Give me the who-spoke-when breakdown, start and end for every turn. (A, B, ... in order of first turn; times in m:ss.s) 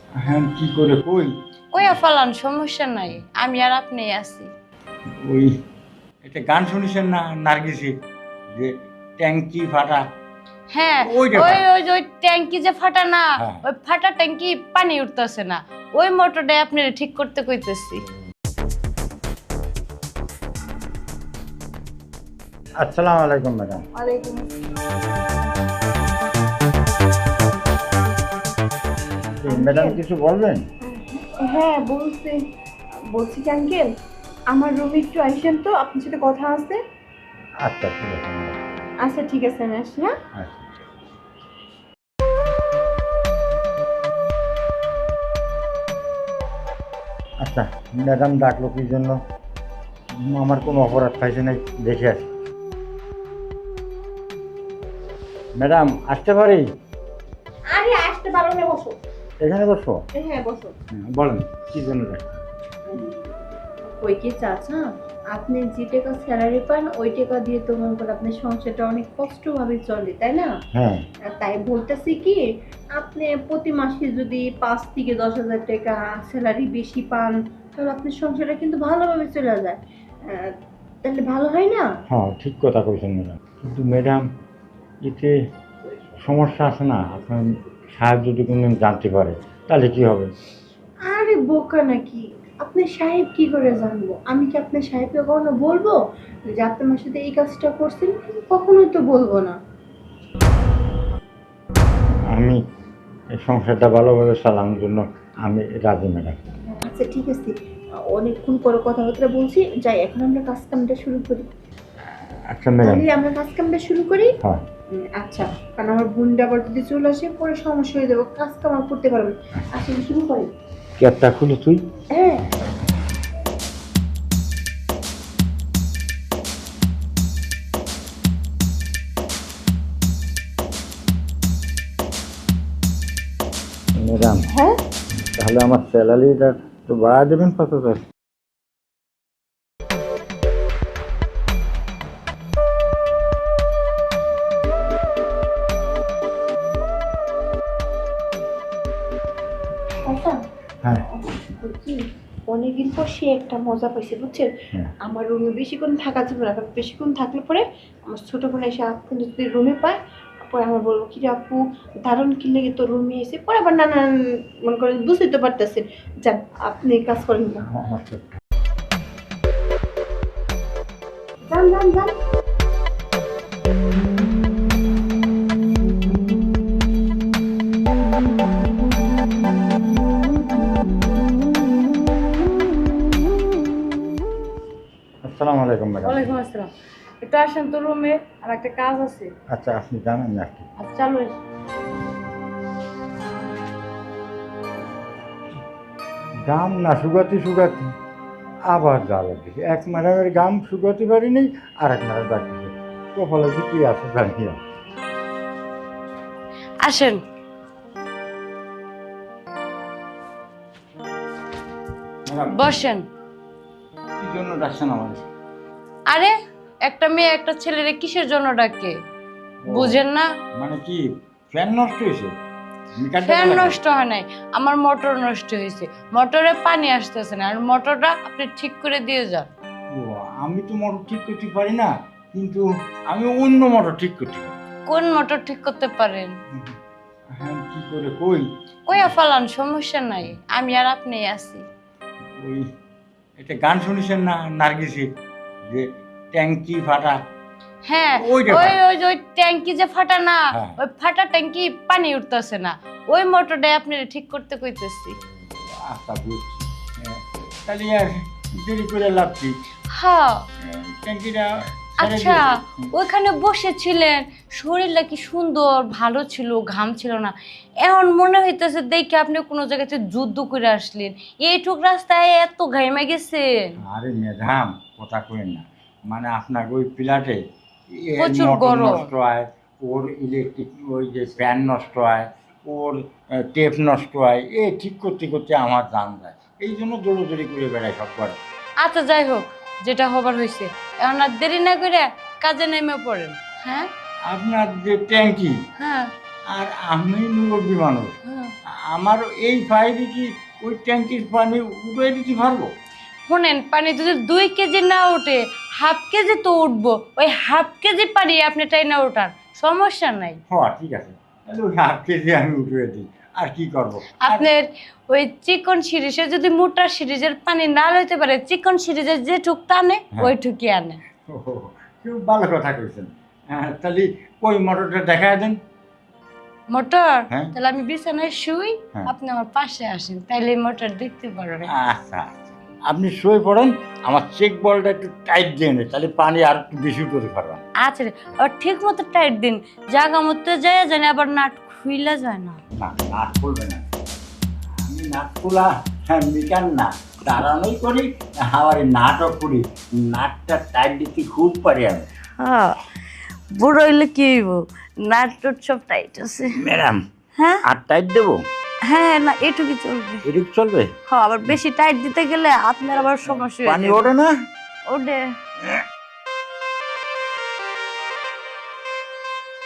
0:00.2-0:02.0 A
0:01.7-0:04.5 B
0:05.2-0:05.5 A
0:06.2-0:07.9 A
0:08.5-0:10.1 A
0:10.7-0:18.0 B
0:11.0-0:11.6 A
0:13.4-0:13.6 A
0:22.8-0:23.9 A
0:24.0-0:24.4 C
0:29.4-0:30.6 A
0:29.5-0:30.0 C
0:30.8-0:32.4 C
0:33.1-0:33.9 C
0:34.5-0:36.8 C
0:37.6-0:38.6 A
0:39.0-0:40.1 C
0:40.4-0:40.7 A
0:47.4-0:49.2 A
0:50.2-0:52.3 A
0:55.6-0:56.6 A
0:57.7-0:59.0 C
0:59.4-1:00.0 A
1:00.2-1:00.7 C
1:00.9-1:02.3 A
1:02.9-1:03.2 C
1:03.8-1:10.5 C
1:10.7-1:11.1 A
1:11.3-1:12.4 C
1:13.0-1:20.5 C
1:21.0-1:21.9 C
1:22.1-1:24.2 A
1:25.1-1:25.3 A
1:26.2-1:27.4 A
1:28.0-1:30.3 A
1:31.1-1:36.0 C
1:36.6-1:39.6 C
1:42.3-1:42.6 A
1:43.4-1:46.4 A
1:46.8-1:47.5 C
1:48.1-1:51.5 C
1:52.5-1:53.0 A
1:52.8-1:54.3 C
1:55.1-2:00.5 C
2:01.0-2:01.8 A
2:02.1-2:02.4 C
2:14.0-2:14.5 A
2:15.3-2:18.0 A
2:30.1-2:30.4 C
2:31.1-2:34.5 C
2:35.1-2:44.1 C
2:44.6-2:47.6 C
2:47.7-2:48.3 A
2:51.5-2:52.1 C
3:05.2-3:06.3 A
3:06.0-3:06.7 B
3:07.2-3:09.3 B
3:09.5-3:10.7 A
3:10.8-3:11.3 B
3:16.5-3:17.9 A
3:18.7-3:24.6 A
3:26.8-3:27.2 B
3:32.3-3:32.8 A
3:32.5-3:33.0 B
3:34.2-3:35.3 A
3:36.1-3:36.3 B
3:36.8-3:39.0 B
3:39.6-3:40.0 A
3:39.7-3:40.3 B
3:40.6-3:42.3 A
3:43.0-3:43.8 A
3:43.2-3:49.5 B
3:50.0-3:54.6 A
3:54.9-3:56.3 B
3:57.4-3:59.2 A
3:58.9-4:01.6 B
4:02.4-4:02.6 A
4:03.4-4:05.1 A
4:05.7-4:07.2 A
4:07.9-4:15.2 B
4:08.1-4:08.8 A
4:15.3-4:19.5 A
4:19.9-4:20.5 B
4:20.6-4:22.9 A
4:22.0-4:33.8 B
4:33.8-4:37.4 A
4:37.9-4:48.4 A
4:38.2-4:39.0 B
4:48.8-4:53.9 B
4:54.3-4:55.6 A
4:55.8-4:56.1 B
4:56.5-4:58.2 A
4:58.3-4:58.5 B
4:58.8-5:02.7 A
5:03.3-5:10.4 B
5:10.5-5:14.5 A
5:14.2-5:21.0 B
5:21.3-5:25.6 A
5:26.7-5:31.7 B
5:31.7-5:32.4 A
5:32.9-5:37.6 A
5:37.8-5:42.6 B
5:42.8-5:43.8 A
5:44.8-5:52.1 A
5:52.4-5:52.8 B
5:53.5-5:56.6 B
5:56.6-5:57.0 A
5:57.4-5:57.6 B
5:57.6-5:58.4 A
5:58.9-6:00.3 B
6:00.2-6:00.9 A
6:01.1-6:04.1 B
6:03.2-6:04.3 A
6:04.9-6:05.3 B